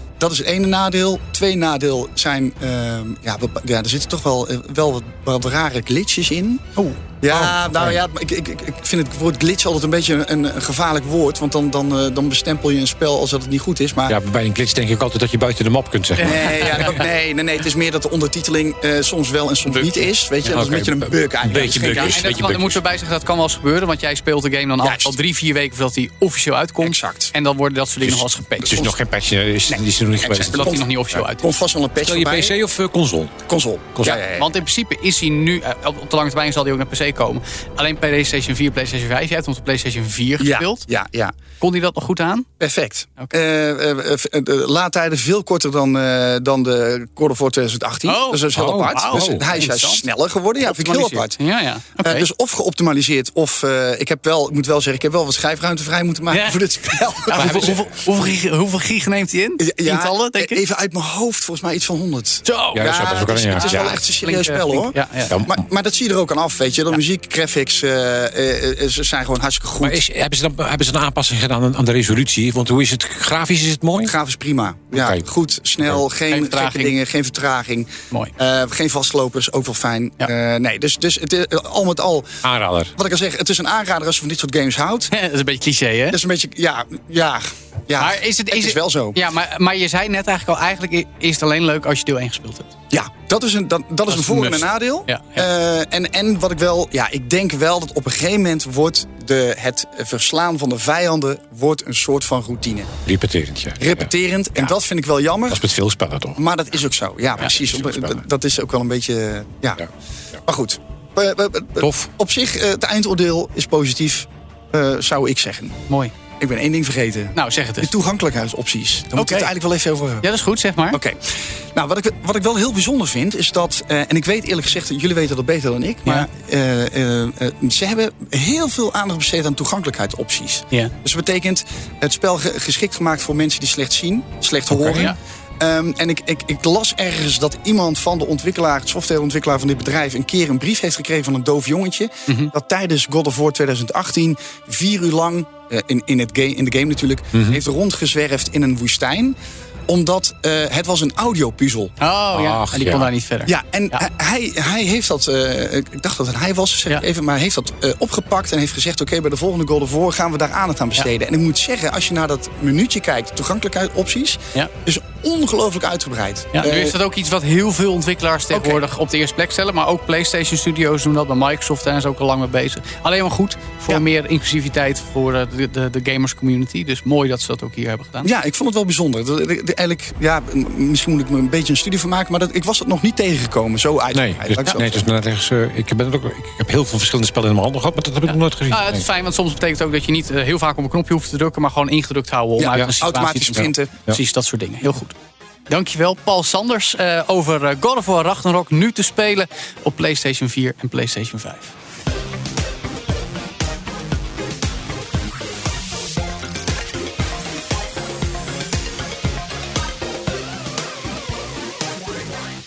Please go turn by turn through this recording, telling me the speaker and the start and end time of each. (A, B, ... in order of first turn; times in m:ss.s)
0:00.2-0:06.6 A
0:06.8-0:07.0 B
0:07.2-0:14.2 A
0:07.3-0:08.0 C
0:14.1-0:16.8 C
0:16.2-0:17.0 B
0:16.2-0:22.2 A
0:20.4-0:22.8 C
0:21.9-0:28.8 B
0:24.8-0:25.2 A
0:26.8-0:27.3 A
0:28.0-0:31.2 C
0:28.7-0:29.0 A
0:29.7-0:30.8 A
0:30.5-0:31.5 B
0:31.4-0:32.6 A
0:32.0-0:33.4 C
0:33.5-0:34.5 A
0:34.0-0:40.9 B
0:40.4-0:41.3 A
0:41.6-0:42.5 B
0:42.6-0:51.4 A
0:48.0-0:50.0 B
0:48.6-0:49.4 C
0:50.6-0:52.3 B
0:52.0-0:57.8 A
0:56.3-1:00.6 B
0:57.4-0:57.8 C
0:59.6-1:10.0 A
1:02.4-1:02.9 B
1:02.7-1:04.0 C
1:03.5-1:05.4 B
1:09.8-1:14.1 C
1:14.0-1:22.4 A
1:14.9-1:15.2 C
1:16.3-1:17.0 B
1:22.4-1:22.9 C
1:23.0-1:25.1 A
1:25.1-1:26.2 B
1:26.1-1:29.2 A
1:28.0-1:32.7 B
1:32.9-1:42.9 A
1:34.1-1:35.5 B
1:43.1-1:44.7 C
1:43.8-1:45.6 A
1:45.5-1:46.4 C
1:46.4-1:49.8 A
1:47.4-1:48.2 C
1:50.5-1:55.8 A
1:51.8-1:52.1 C
1:55.9-1:56.1 B
1:56.4-2:00.3 A
1:57.3-1:57.9 B
1:59.1-1:59.5 B
2:00.2-2:01.0 B
2:00.9-2:01.2 A
2:01.8-2:29.4 A
2:14.7-2:15.1 C
2:22.3-2:22.5 B
2:27.3-2:27.6 C
2:29.9-2:31.9 A
2:32.0-2:34.1 B
2:32.3-2:33.1 C
2:33.5-2:47.0 A
2:46.5-2:58.3 B
2:48.5-2:48.8 A
2:58.2-3:05.0 A
3:04.1-3:09.0 C
3:08.3-3:15.2 B
3:12.6-3:14.0 A
3:13.5-3:14.2 C
3:15.7-3:21.7 B